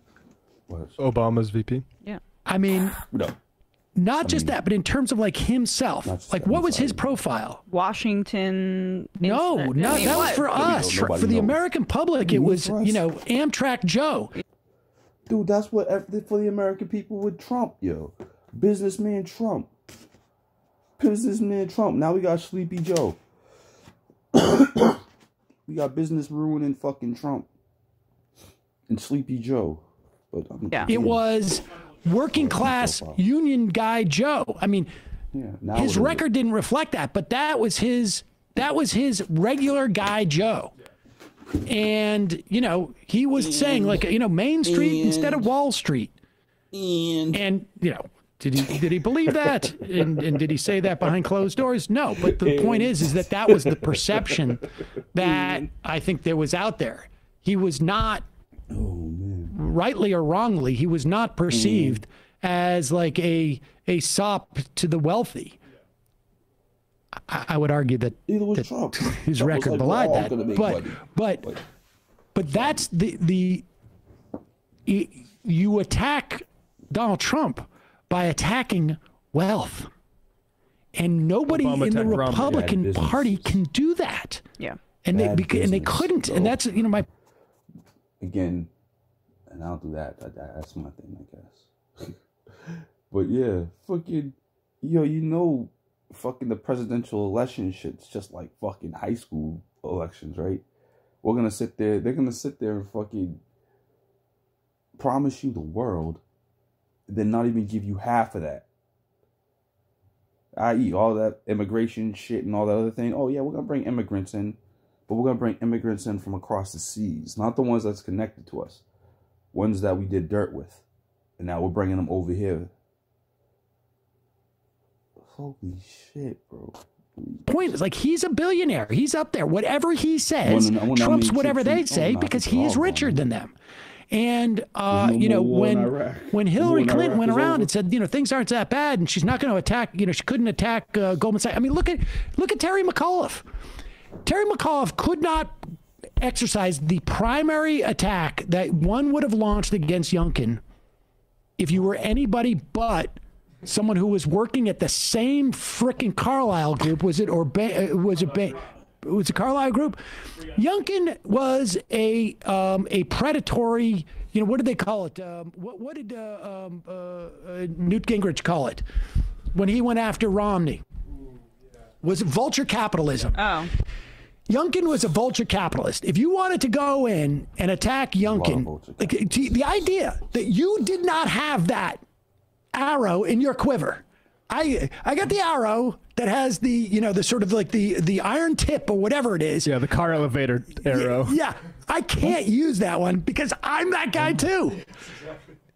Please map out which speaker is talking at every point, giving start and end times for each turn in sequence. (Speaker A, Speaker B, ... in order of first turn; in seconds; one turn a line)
Speaker A: 0.7-1.0
Speaker B: 1.0-1.8
Speaker C: 2.5-3.0
Speaker A: 3.1-3.4
Speaker C: 4.0-7.6
Speaker A: 4.2-4.6
Speaker A: 6.0-7.1
Speaker D: 7.7-10.5
Speaker C: 9.2-14.3
Speaker A: 9.8-11.6
Speaker A: 12.2-13.0
Speaker A: 15.3-19.7
Speaker A: 21.0-23.2
Speaker A: 24.3-25.0
Speaker A: 25.7-27.5
Speaker A: 28.9-31.2
Speaker C: 30.9-34.9
Speaker A: 32.3-33.2
Speaker A: 35.3-36.2
Speaker C: 35.7-40.7
Speaker C: 41.6-46.1
Speaker A: 43.4-44.1
Speaker A: 44.6-45.5
Speaker A: 46.7-47.4
Speaker C: 47.3-58.2
Speaker A: 49.3-50.1
Speaker A: 52.2-54.3
Speaker A: 55.2-55.7
Speaker A: 58.7-59.5
Speaker C: 59.5-65.6
Speaker A: 61.5-62.0
Speaker C: 67.3-71.5
Speaker A: 68.3-71.6
Speaker C: 72.3-73.7
Speaker C: 74.9-79.9
Speaker C: 81.0-84.4
Speaker B: 81.5-82.6
Speaker A: 82.3-83.6
Speaker C: 85.0-87.1
Speaker A: 85.1-86.6
Speaker A: 88.2-88.7
Speaker A: 89.5-100.7
Speaker A: 101.2-103.4
Speaker A: 105.0-106.2
Speaker A: 107.1-108.7
Speaker A: 110.5-114.6
Speaker A: 115.1-118.8
Speaker A: 119.5-120.8
Speaker A: 121.4-122.7
Speaker A: 125.2-127.5
Speaker C: 127.5-133.5
Speaker A: 130.4-133.2
Speaker C: 134.1-143.4
Speaker A: 134.9-137.7
Speaker C: 144.2-145.6
Speaker C: 146.2-150.6
Speaker C: 151.6-168.8
Speaker C: 169.5-170.8
Speaker C: 172.0-173.7
Speaker D: 173.3-173.7
Speaker C: 174.5-182.0
Speaker A: 178.2-179.7
Speaker C: 182.7-189.7
Speaker B: 189.6-191.4
Speaker C: 190.8-194.8